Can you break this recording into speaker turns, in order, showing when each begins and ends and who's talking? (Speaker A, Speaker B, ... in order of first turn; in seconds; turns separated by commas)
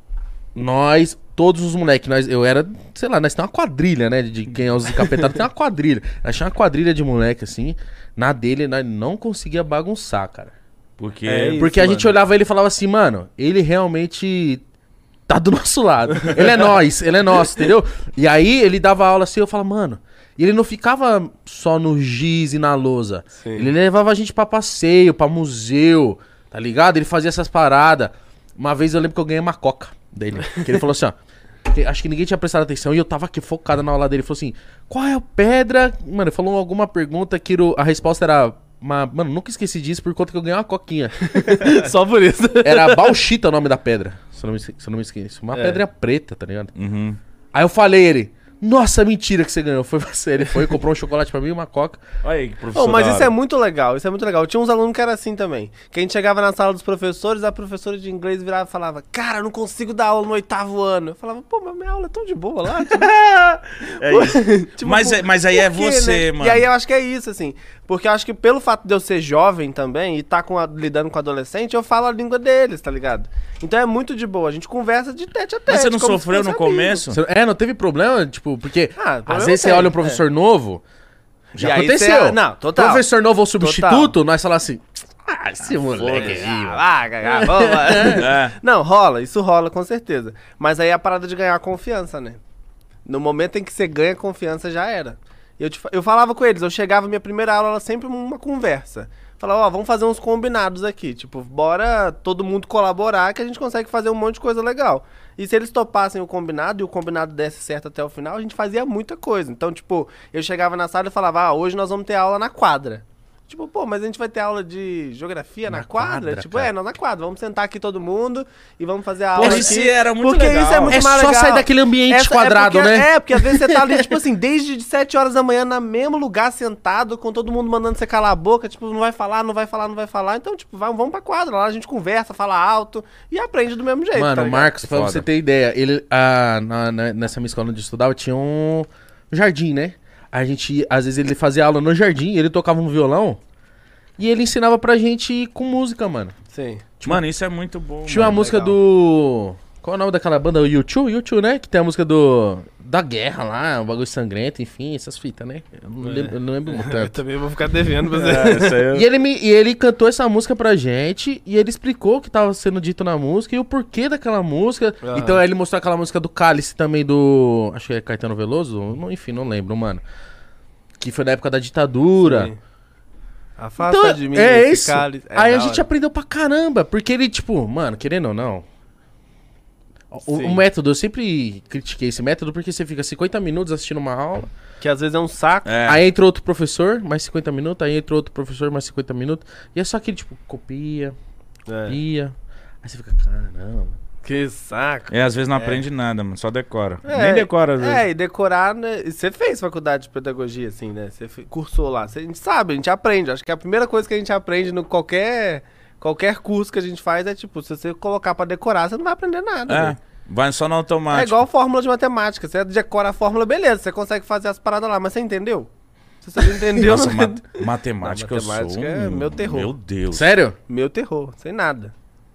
Speaker A: 0.6-10.5, Speaker B: 11.0-11.6, Speaker C: 11.2-12.2, Speaker A: 11.6-14.6, Speaker A: 15.3-41.7, Speaker C: 23.4-23.7, Speaker C: 41.3-43.2, Speaker A: 42.6-46.7, Speaker C: 45.5-45.8, Speaker B: 46.8-47.2, Speaker A: 47.5-52.0, Speaker B: 52.2-53.3, Speaker C: 52.7-63.1, Speaker B: 62.8-66.7, Speaker C: 64.0-77.0, Speaker B: 75.7-77.2, Speaker A: 77.1-80.8, Speaker C: 79.0-80.2, Speaker C: 81.6-84.2, Speaker A: 81.6-88.2, Speaker B: 85.9-86.5, Speaker C: 86.0-92.4, Speaker B: 88.2-88.6, Speaker C: 93.0-134.8, Speaker A: 115.7-116.7, Speaker B: 119.4-121.0, Speaker A: 119.4-119.8, Speaker A: 120.9-124.0, Speaker A: 134.2-143.4, Speaker B: 134.8-135.3, Speaker A: 144.2-146.3, Speaker C: 146.5-146.8, Speaker B: 147.0-148.4, Speaker A: 148.1-157.2, Speaker C: 148.1-148.8, Speaker C: 156.0-158.9, Speaker B: 158.1-159.1, Speaker A: 158.9-170.0, Speaker C: 165.0-165.4, Speaker A: 171.0-172.5, Speaker C: 172.2-172.6, Speaker C: 173.6-175.9, Speaker A: 173.8-178.7, Speaker A: 180.1-184.5, Speaker C: 180.3-180.6, Speaker C: 184.8-185.8, Speaker B: 185.7-186.0, Speaker A: 185.8-191.2, Speaker C: 191.7-192.0, Speaker A: 191.9-194.0, Speaker C: 194.2-195.8, Speaker B: 195.1-198.0, Speaker C: 197.0-210.0, Speaker B: 209.7-211.4, Speaker C: 211.1-215.7, Speaker C: 216.2-219.7, Speaker B: 216.4-220.3, Speaker A: 220.1-220.6, Speaker C: 220.7-221.9